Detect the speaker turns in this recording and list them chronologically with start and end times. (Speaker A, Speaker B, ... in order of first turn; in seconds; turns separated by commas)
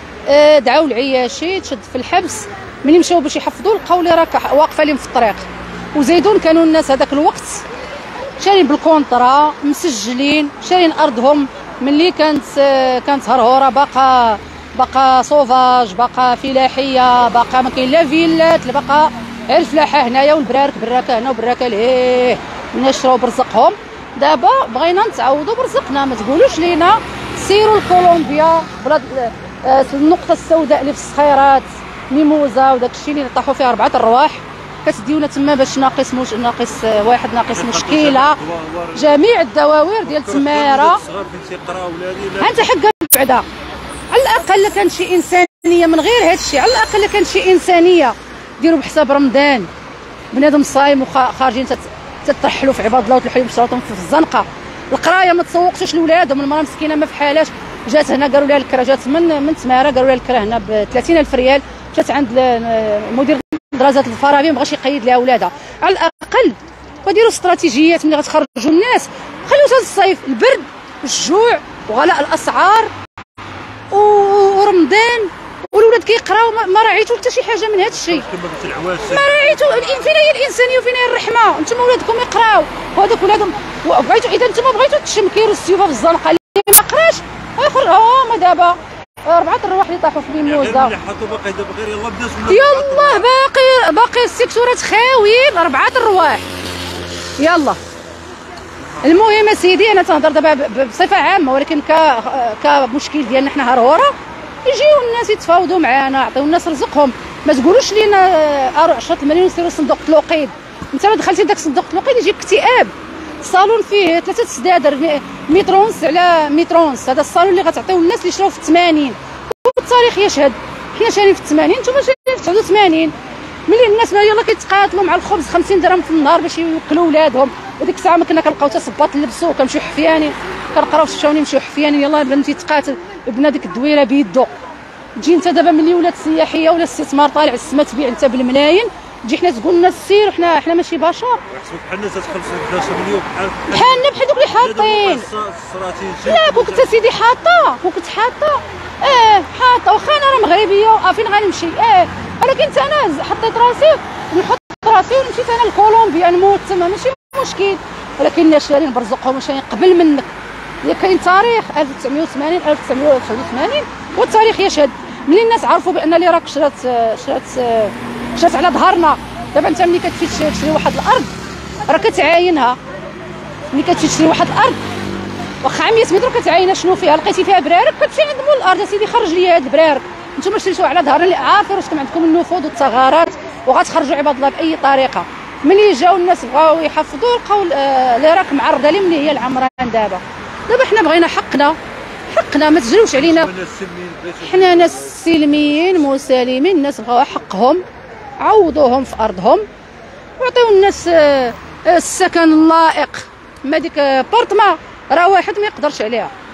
Speaker A: 0.3-7.6, Speaker A: 8.4-38.4, Speaker B: 37.5-39.1, Speaker A: 38.9-41.0, Speaker B: 40.0-42.6, Speaker A: 42.4-43.5, Speaker A: 44.1-49.7, Speaker A: 50.3-72.9, Speaker A: 73.9-78.3, Speaker B: 78.0-80.0, Speaker A: 79.0-91.0, Speaker B: 90.5-93.3, Speaker A: 92.5-96.4, Speaker A: 97.4-97.8, Speaker A: 99.0-123.1, Speaker A: 123.7-134.5, Speaker A: 135.2-141.4, Speaker B: 141.5-146.9, Speaker A: 143.7-145.3, Speaker A: 146.2-160.3, Speaker A: 160.8-171.3, Speaker A: 171.9-172.8, Speaker A: 173.7-174.8, Speaker A: 175.6-191.8, Speaker A: 192.3-193.5, Speaker B: 193.2-196.0, Speaker A: 194.4-197.8, Speaker A: 198.4-199.6, Speaker A: 200.4-206.3